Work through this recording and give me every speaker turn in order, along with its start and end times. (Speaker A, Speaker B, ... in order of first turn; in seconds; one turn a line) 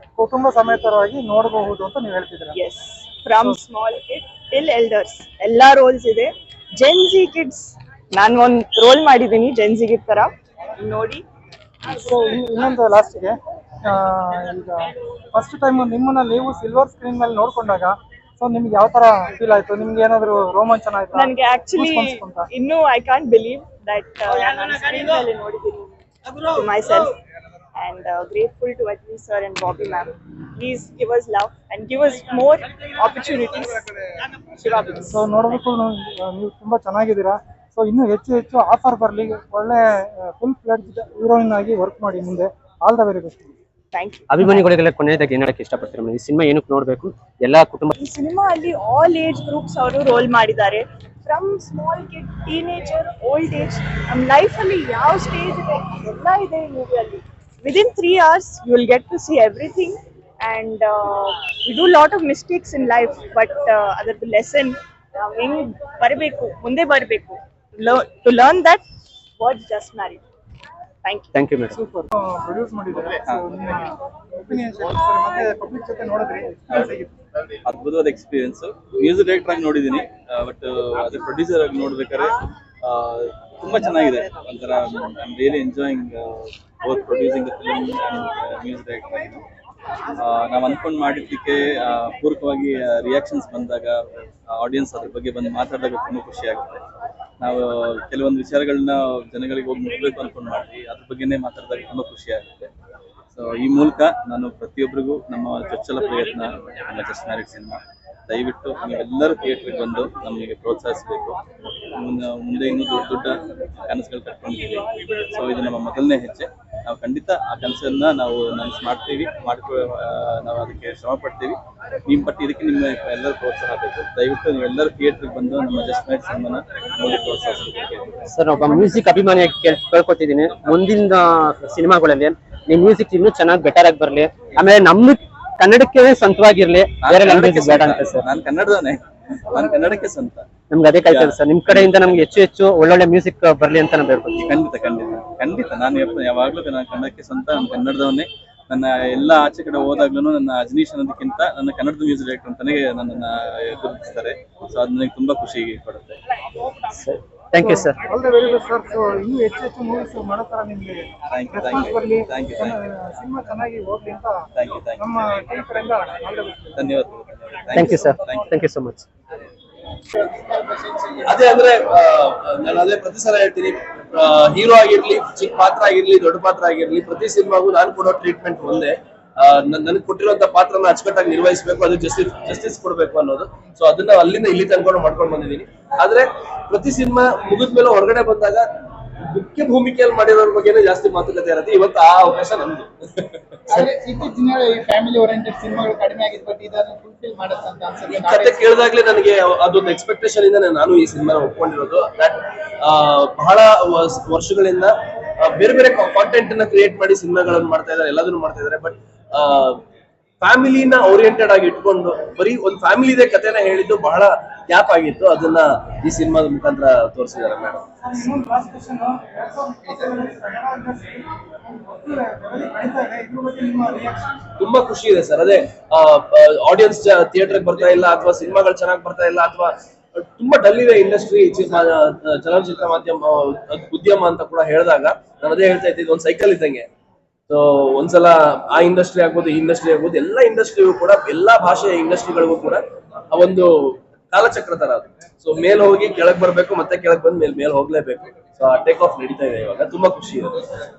Speaker A: 0.2-2.5
Speaker B: 2.5-11.2
Speaker A: 11.9-22.5
Speaker B: 21.1-27.1
Speaker B: 27.7-33.9
Speaker B: 34.5-35.2
Speaker A: 35.1-43.5
Speaker B: 43.9-44.5
Speaker C: 44.3-47.9
Speaker B: 48.0-68.8
Speaker B: 69.4-70.2
Speaker B: 71.0-71.3
Speaker C: 71.3-71.8
Speaker A: 71.7-77.1
Speaker D: 77.6-89.4
Speaker D: 90.1-96.8
Speaker D: 97.4-102.7
Speaker D: 103.3-111.4
Speaker D: 111.9-128.1
Speaker C: 128.3-138.2
Speaker D: 137.0-140.5
Speaker C: 140.7-144.5
Speaker D: 141.1-142.0
Speaker D: 144.4-156.2
Speaker C: 156.9-158.0
Speaker A: 157.6-166.8
Speaker D: 161.3-162.8
Speaker D: 164.5-165.1
Speaker D: 166.8-168.5
Speaker C: 167.7-169.1
Speaker E: 170.3-171.2
Speaker F: 171.2-188.7
Speaker F: 189.3-193.9
Speaker E: 193.7-198.7
Speaker F: 198.1-209.8
Speaker F: 210.4-217.8
Speaker A: 218.0-224.3
Speaker F: 224.6-236.9
Speaker F: 237.5-250.6